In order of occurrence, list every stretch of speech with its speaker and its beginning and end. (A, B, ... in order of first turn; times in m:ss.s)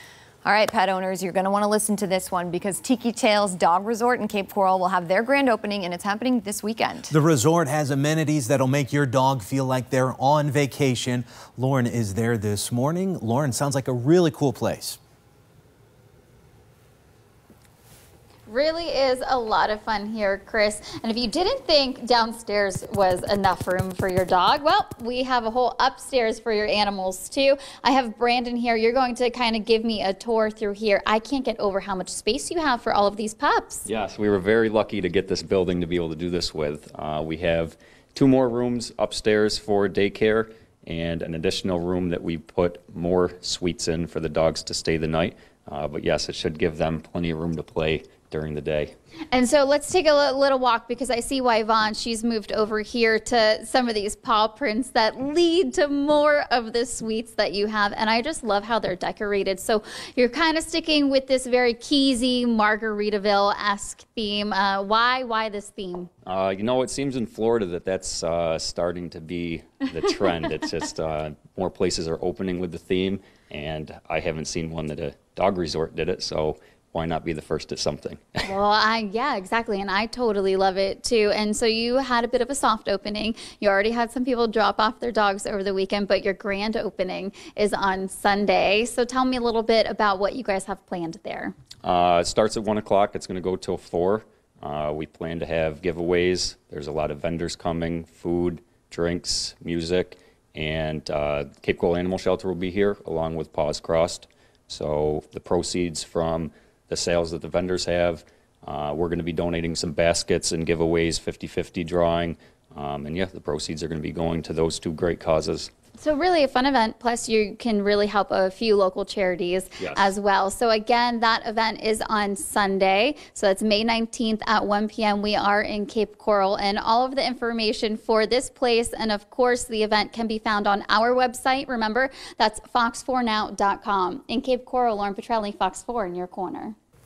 0:00.4-0:07.1 A
0:07.1-0:15.0 B
0:18.5-0:33.9 C
0:33.9-0:49.0 D
0:49.3-1:06.1 C
1:06.2-1:18.5 D
1:18.5-1:31.5 C
1:31.8-1:55.7 D
1:56.0-2:16.8 C
1:59.8-2:00.1 D